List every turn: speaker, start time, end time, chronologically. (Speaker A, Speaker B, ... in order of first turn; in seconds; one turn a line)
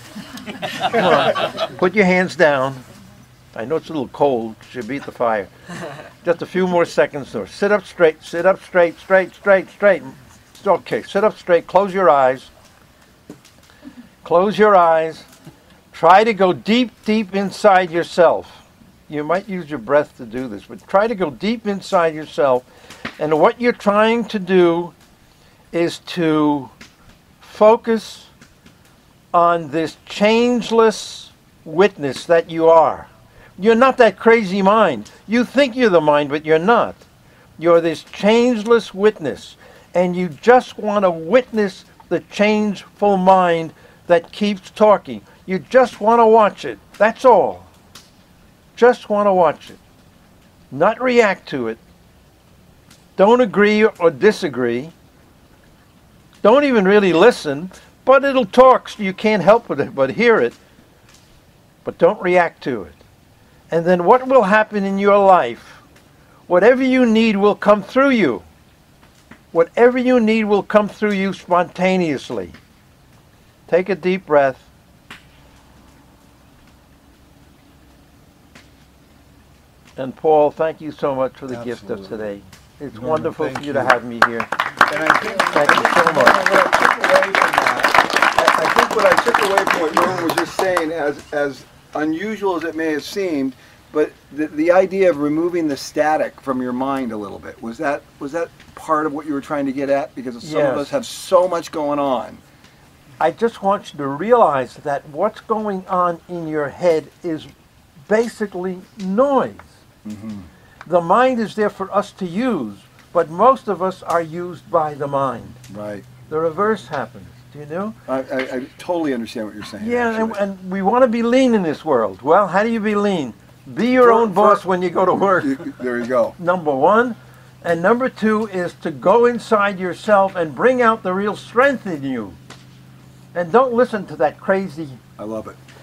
Speaker A: 0.8-2.8
Speaker A: 3.5-5.5
Speaker A: 6.2-12.5
Speaker A: 14.2-15.3
Speaker A: 15.9-22.7
Speaker A: 23.2-24.9
Speaker A: 25.7-26.7
Speaker A: 27.4-28.3
Speaker A: 29.3-37.0
Speaker A: 37.6-47.7
Speaker A: 48.8-49.8
Speaker A: 50.7-51.8
Speaker A: 53.2-54.9
Speaker A: 56.4-60.6
Speaker A: 61.8-63.0
Speaker A: 63.7-65.8
Speaker A: 66.5-68.5
Speaker A: 69.5-72.5
Speaker A: 73.7-74.7
Speaker A: 80.0-84.5
Speaker B: 81.5-82.3
Speaker B: 82.9-83.9
Speaker B: 84.9-102.4
Speaker A: 85.5-86.4
Speaker A: 100.4-100.9
Speaker A: 103.2-107.5
Speaker A: 108.0-109.7
Speaker B: 110.0-110.5
Speaker A: 110.8-115.6
Speaker B: 115.7-116.1
Speaker A: 116.3-118.0
Speaker B: 118.1-120.4
Speaker A: 119.8-125.7
Speaker B: 124.0-124.6
Speaker B: 125.4-126.3
Speaker A: 126.3-132.4
Speaker A: 133.3-135.0
Speaker B: 135.2-135.6